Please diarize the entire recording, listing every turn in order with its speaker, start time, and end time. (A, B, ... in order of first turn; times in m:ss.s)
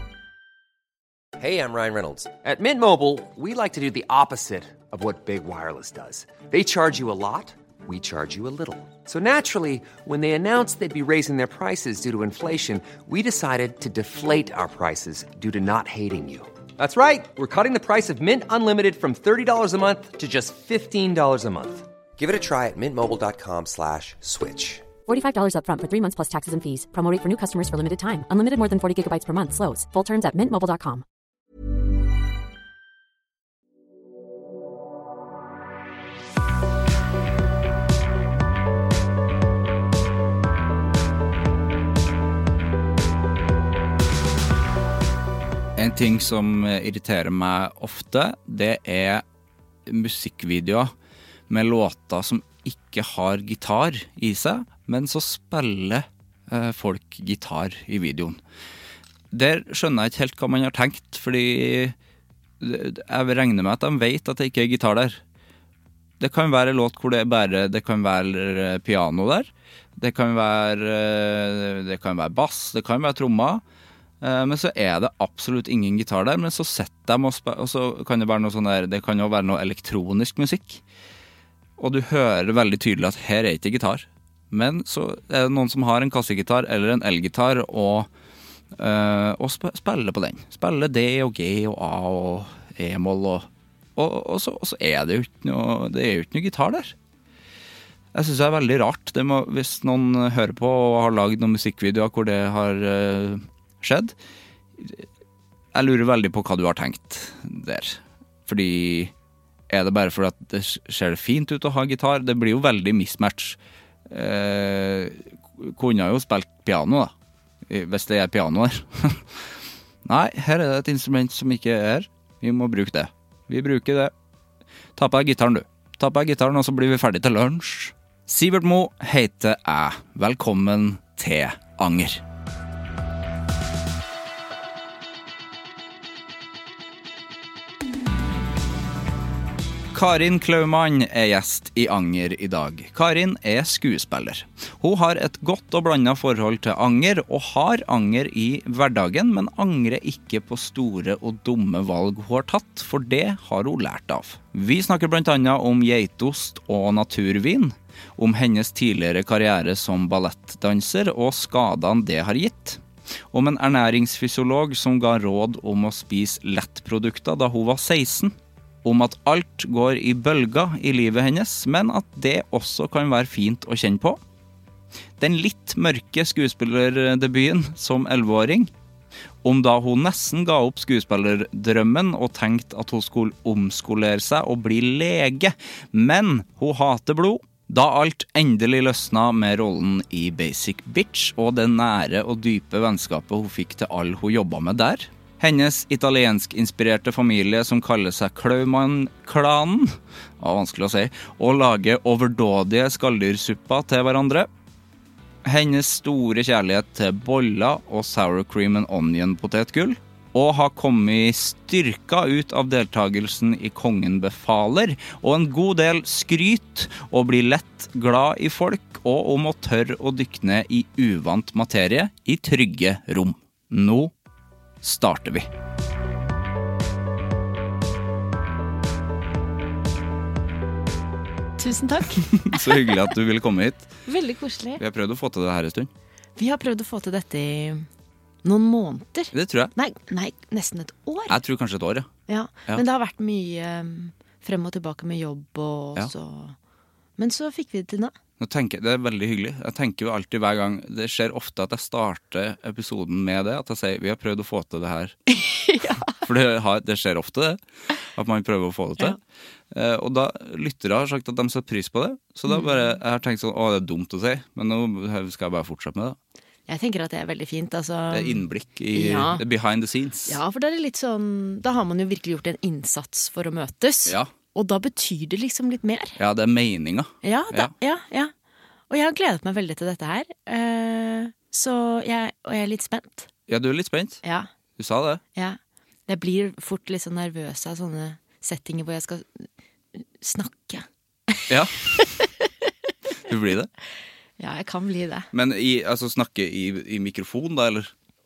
0:01.4-0:24.9 A
0:25.1-0:31.0 B
0:45.8-0:49.2 C
0:49.8-0:50.9 C
0:51.5-0:58.4 C
0:59.3-1:01.9 C
1:02.6-1:05.2 C
1:06.2-1:13.6 C
1:14.2-1:20.8 C
1:21.8-1:28.1 C
1:28.7-1:37.0 C
1:38.1-1:44.1 C
1:44.8-1:45.0 C
1:45.7-1:49.1 C
1:49.7-1:53.6 C
1:54.1-1:57.1 C
1:57.7-1:59.4 C
2:00.0-2:04.1 C
2:05.0-2:12.2 C
2:19.9-2:54.2 C
2:55.2-2:58.7 C
2:59.4-3:24.5 C
3:25.4-3:44.1 C
3:44.8-3:45.5 C
3:51.6-3:53.0 D
3:52.2-3:53.9 C
3:54.0-3:54.8 D
3:54.8-3:55.9 C
3:56.4-3:57.9 D
3:58.4-4:01.4 D
3:59.3-3:59.7 C
4:01.3-4:02.1 C
4:02.3-4:06.6 D
4:07.2-4:08.1 D
4:08.4-4:15.2 C
4:15.3-4:16.2 D
4:16.1-4:19.2 C
4:19.7-4:26.2 C
4:22.5-4:22.9 D
4:26.7-4:29.4 D
4:28.1-4:30.4 C
4:30.3-4:36.2 D
4:34.0-4:34.3 C
4:36.2-4:37.7 C
4:37.2-4:38.3 D
4:38.9-4:43.3 D
4:43.5-4:44.2 C
4:44.2-4:44.5 D
4:44.8-4:45.2 C
4:45.3-4:52.9 D
4:51.5-4:52.2 C
4:53.2-4:53.7 C
4:54.4-4:55.3 D
4:55.3-4:57.9 C